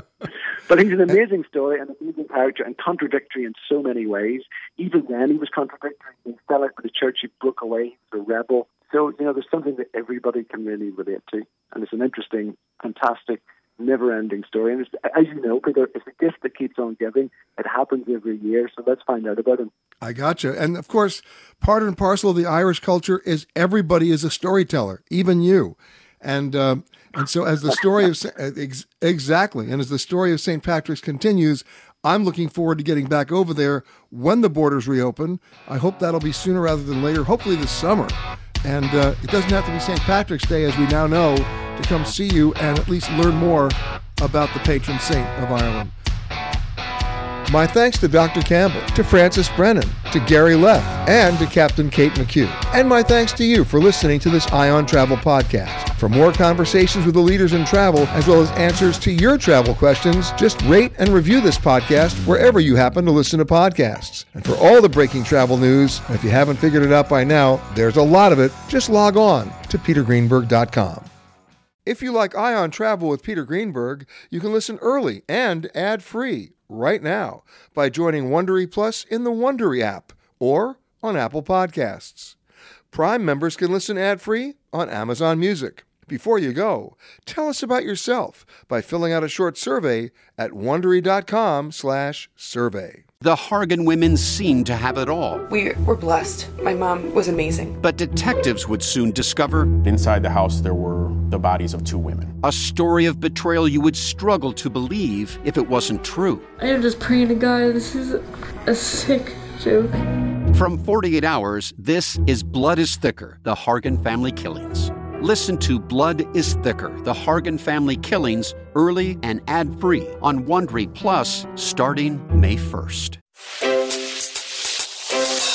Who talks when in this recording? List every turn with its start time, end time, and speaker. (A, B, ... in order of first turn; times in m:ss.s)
0:00.7-0:19.7 A
0:20.0-0:45.9 B
0:47.5-1:11.1 B
1:11.8-1:22.4 B
1:22.9-1:33.0 B
1:33.2-1:35.4 C
1:35.7-1:37.5 D
1:37.8-1:39.8 C
1:39.8-1:42.3 E
1:42.4-1:46.5 C
1:46.6-1:50.0 D
1:50.5-2:03.2 C